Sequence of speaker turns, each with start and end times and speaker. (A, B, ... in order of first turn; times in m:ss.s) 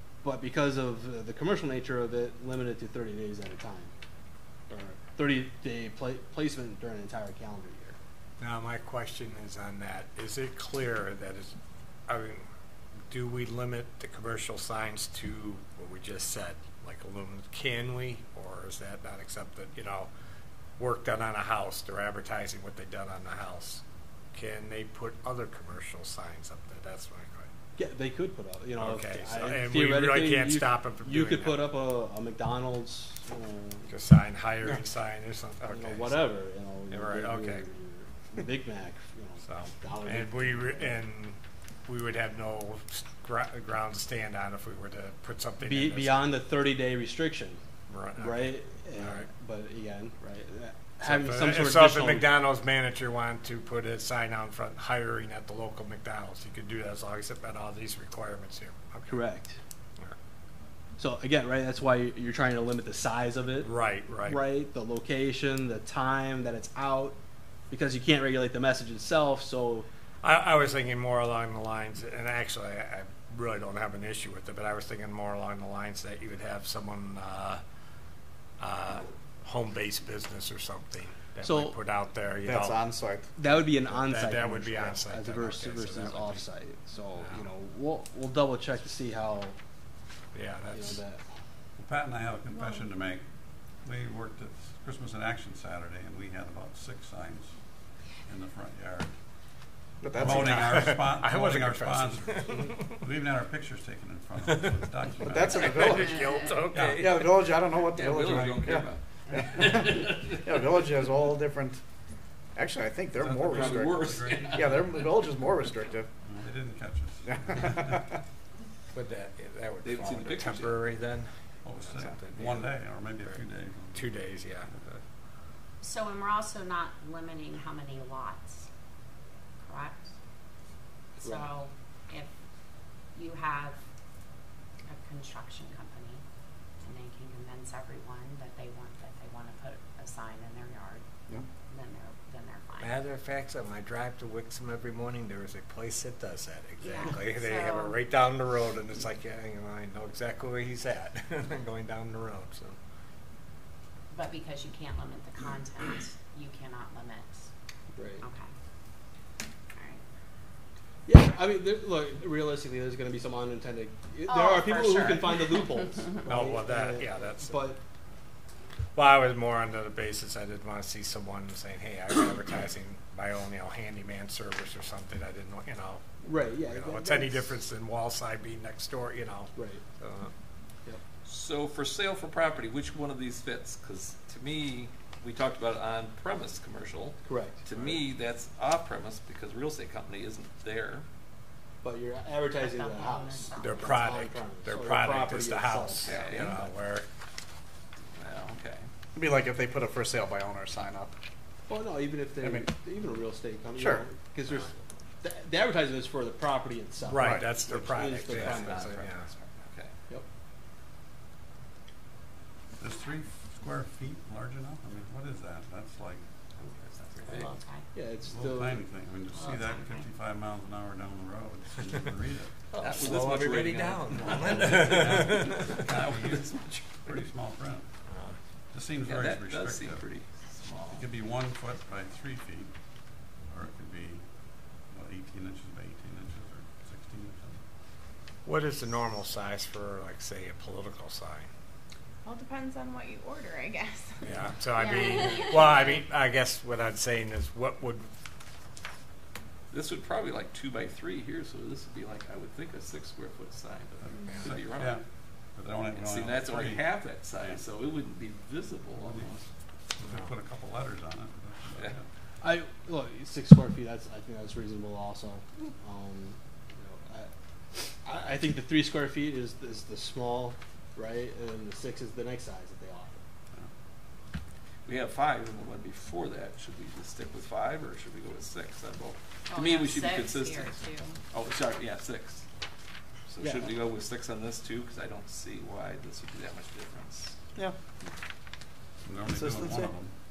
0:00.2-0:03.9 A
0:04.7-0:08.0 A
0:08.4-0:11.5 B
0:12.1-0:12.4 B
0:13.1-0:20.1 B
0:20.8-0:23.8 B
0:24.3-0:27.5 B
0:27.8-0:33.9 A
0:28.8-0:31.7 B
0:33.9-0:36.3 B
0:35.6-0:41.0 A
0:36.9-0:37.6 B
0:39.4-0:46.2 B
0:45.6-0:47.6 A
0:47.9-0:49.3 B
0:48.2-0:52.3 A
0:51.0-0:59.2 B
0:59.1-0:59.6 A
1:01.0-1:07.2 A
1:03.6-1:04.4 B
1:07.7-1:09.9 A
1:10.2-1:17.6 B
1:18.6-1:22.8 B
1:21.4-1:21.7 A
1:22.4-1:23.3 C
1:23.4-1:29.6 A
1:23.6-1:26.4 B
1:27.2-1:27.5 B
1:30.3-1:31.0 B
1:30.7-1:31.2 A
1:31.8-1:33.2 D
1:32.5-1:32.9 E
1:33.8-1:37.6 D
1:38.2-1:39.1 D
1:40.0-1:40.5 C
1:40.1-1:46.0 D
1:40.2-1:43.0 B
1:44.4-1:47.1 B
1:45.2-1:46.2 C
1:46.7-1:47.5 D
1:47.0-1:51.8 C
1:47.9-1:50.4 F
1:52.6-1:56.1 C
1:53.2-1:54.9 D
1:53.3-1:55.1 F
1:56.2-1:58.1 D
1:57.2-1:58.0 C
1:58.9-2:02.7 B
1:59.8-2:00.8 F
2:01.6-2:04.8 D
2:03.9-2:05.0 B
2:05.8-2:08.6 G
2:09.6-2:10.1 G
2:11.2-2:12.3 G
2:13.1-2:13.8 G
2:14.9-2:16.2 G
2:16.8-2:21.0 G
2:21.7-2:23.0 G
2:22.8-2:32.8 B
2:26.8-2:28.0 G
2:34.1-2:37.5 G
2:37.9-2:38.2 A
2:38.2-2:38.5 G
2:39.7-2:40.0 G
2:41.1-2:47.8 A
2:44.2-2:45.7 G
2:46.2-2:47.6 B
2:49.0-2:56.0 B
2:56.2-2:57.6 A
2:56.7-3:00.3 B
2:59.6-2:59.8 A
3:01.2-3:11.1 F
3:07.2-3:07.6 A
3:11.8-3:16.7 A
3:12.6-3:14.0 G
3:13.6-3:17.1 B
3:16.0-3:16.6 F
3:18.1-3:18.9 F
3:19.2-3:21.2 C
3:21.7-3:29.1 A
3:22.4-3:22.7 C
3:23.8-3:24.1 C
3:27.0-3:29.3 B
3:27.2-3:27.5 C
3:28.3-3:29.9 F
3:32.8-3:36.2 D
3:36.6-3:37.5 F
3:37.2-3:37.9 G
3:37.9-3:38.8 A
3:38.2-3:43.2 D
3:39.3-3:40.0 G
3:42.7-3:45.4 F
3:42.8-3:46.0 B
3:44.2-3:47.9 D
3:46.7-3:47.0 B
3:48.1-3:48.3 B
3:48.7-3:50.1 D
3:49.0-3:51.1 F
3:50.9-3:52.7 D
3:53.5-3:54.2 D
3:54.9-3:57.6 D
3:58.4-4:01.5 B
4:02.2-4:06.0 E
4:04.2-4:08.1 B
4:09.7-4:15.0 F
4:14.1-4:15.0 D
4:15.6-4:17.6 D
4:15.9-4:19.4 F
4:18.9-4:19.3 D
4:20.0-4:22.1 D
4:20.0-4:20.3 B
4:22.4-4:33.2 A
4:34.9-4:42.4 F
4:39.5-4:41.2 G
4:43.3-4:47.4 F
4:43.4-4:43.7 A
4:49.0-4:50.1 D
4:49.3-4:49.9 C